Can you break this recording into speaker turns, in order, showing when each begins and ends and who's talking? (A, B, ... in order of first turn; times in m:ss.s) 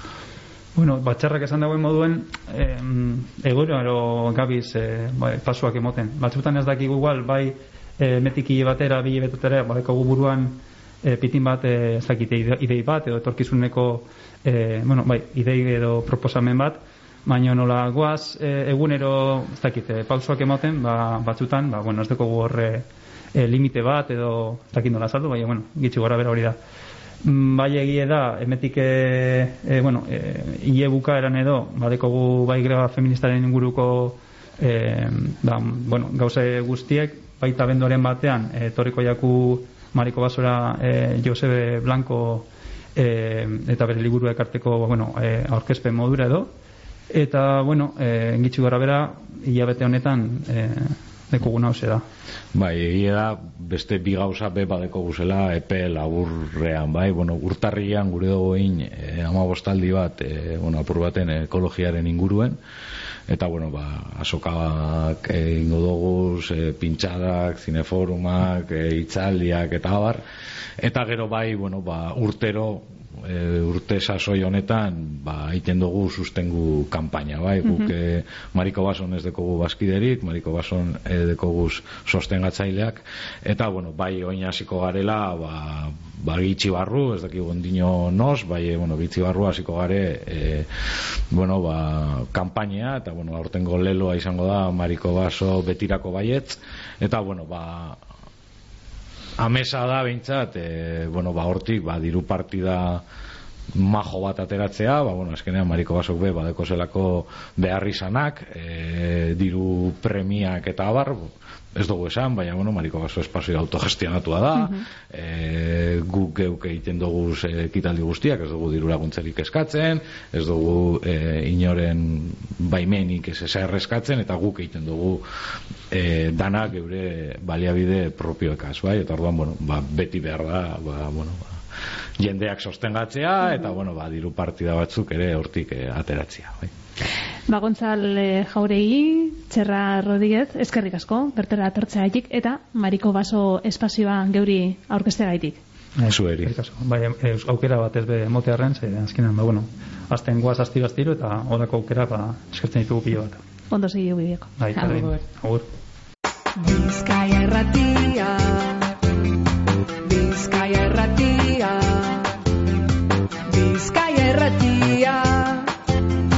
0:00.8-0:26.6 A
0:27.2-0:46.5 A
0:47.1-0:52.0 A
0:52.5-1:02.6 B
1:03.3-1:10.2 B
1:10.8-1:30.7 B
1:31.3-1:38.0 B
1:39.4-1:43.0 B
1:43.7-2:05.2 B
2:05.9-2:11.6 B
2:12.2-2:16.7 B
2:17.5-2:25.6 C
2:26.0-2:33.4 A
2:26.1-2:26.5 B
2:33.7-2:34.5 C
2:34.6-2:35.7 A
2:36.6-2:39.0 D
2:40.0-2:42.4 D
2:43.5-2:45.7 D